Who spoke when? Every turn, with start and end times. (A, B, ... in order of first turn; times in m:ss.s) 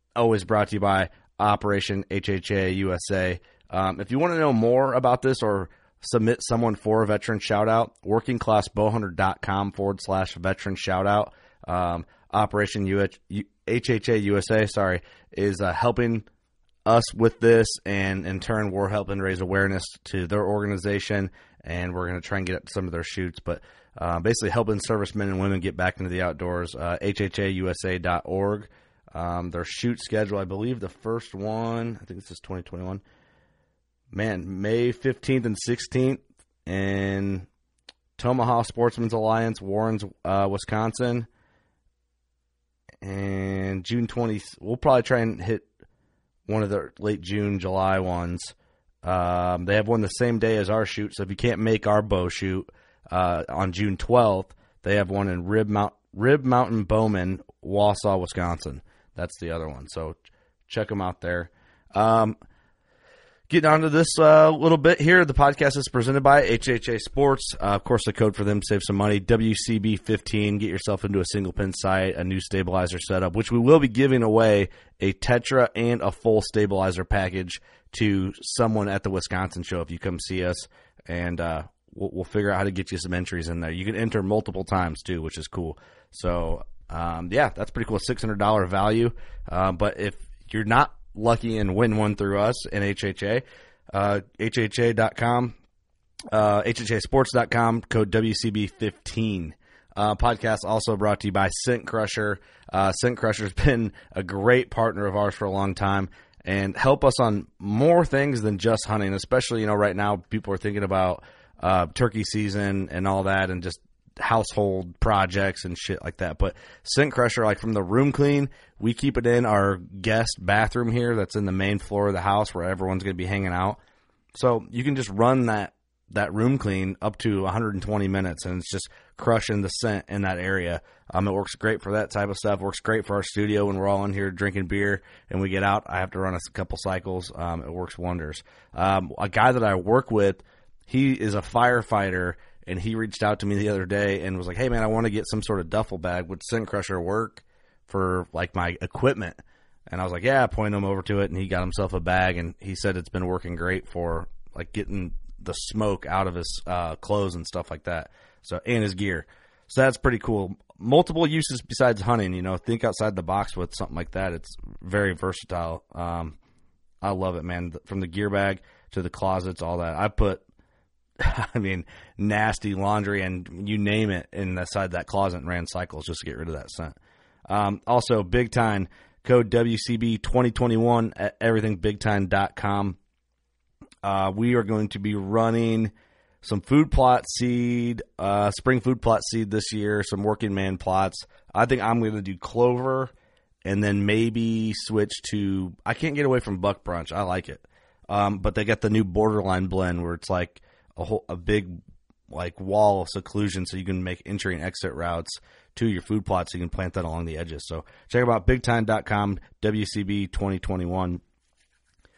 0:00.2-0:16.2 A
0:16.8-0:33.0 A
0:34.1-0:37.5 A
0:38.2-0:41.3 A
0:43.0-0:45.7 A
0:46.5-1:02.4 A
1:03.5-1:35.6 A
1:36.3-2:03.8 A
2:04.3-2:46.4 A
2:47.0-2:50.4 A
2:51.2-2:56.9 A
2:57.5-3:03.0 A
3:04.0-3:13.1 A
3:13.6-3:21.8 A
3:22.3-3:31.2 A